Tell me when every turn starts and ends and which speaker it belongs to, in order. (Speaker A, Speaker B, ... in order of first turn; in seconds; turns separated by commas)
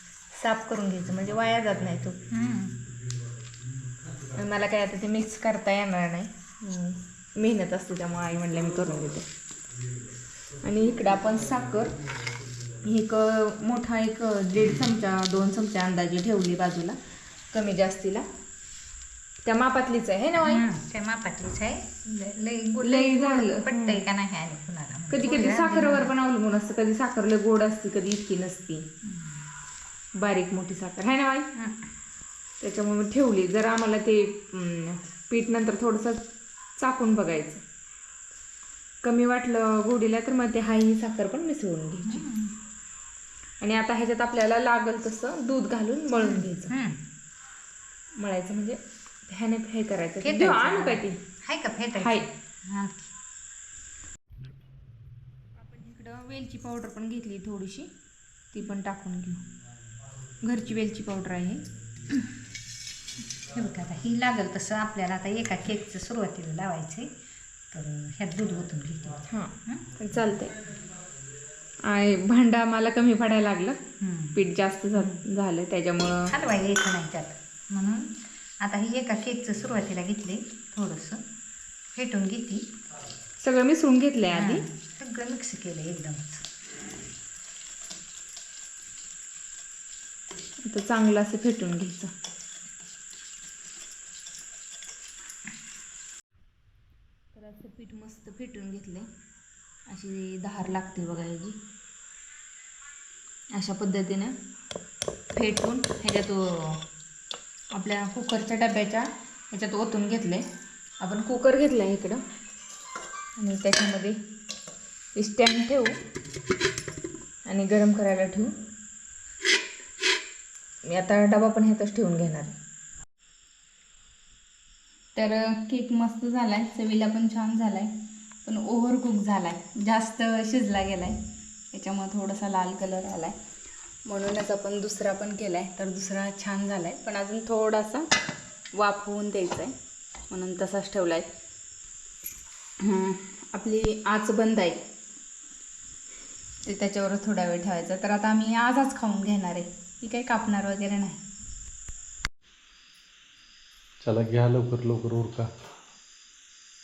Speaker A: 0.3-2.3, Speaker B: 1.3-2.1, Speaker C: 2.3-2.8, Speaker B: 2.8-4.4, Speaker A: 4.4-9.3, Speaker A: 10.6-12.0, Speaker A: 12.8-17.0, Speaker A: 17.5-18.3, Speaker A: 19.4-20.6, Speaker C: 20.4-26.1, Speaker A: 22.8-24.0, Speaker A: 25.1-28.9, Speaker C: 29.0-29.4, Speaker A: 30.2-31.5, Speaker C: 31.6-31.8, Speaker A: 32.6-36.2, Speaker A: 36.8-37.6, Speaker A: 39.0-42.2, Speaker C: 42.0-42.5, Speaker A: 43.6-46.7, Speaker C: 46.2-47.0, Speaker A: 48.2-51.2, Speaker C: 50.2-53.1, Speaker A: 52.0-52.2, Speaker A: 55.6-57.9, Speaker A: 58.5-59.4, Speaker A: 60.4-61.6, Speaker C: 63.5-67.1, Speaker C: 67.7-69.8, Speaker A: 69.3-70.6, Speaker A: 71.8-73.8, Speaker C: 74.0-74.4, Speaker A: 74.3-76.3, Speaker C: 75.0-75.2, Speaker C: 76.2-81.2, Speaker C: 81.9-82.7, Speaker A: 83.4-84.7, Speaker C: 84.3-86.4, Speaker A: 90.6-92.1, Speaker A: 97.3-99.1, Speaker A: 99.9-101.6, Speaker A: 103.5-104.3, Speaker A: 105.3-106.8, Speaker A: 107.7-110.5, Speaker A: 111.0-112.2, Speaker A: 113.4-114.2, Speaker A: 115.2-116.0, Speaker A: 117.5-118.5, Speaker A: 120.9-122.5, Speaker A: 125.2-127.9, Speaker A: 128.4-131.2, Speaker A: 131.7-133.4, Speaker A: 134.1-138.1, Speaker A: 138.7-139.7, Speaker A: 140.3-141.3, Speaker A: 142.8-144.8, Speaker A: 146.6-151.2, Speaker B: 154.0-155.5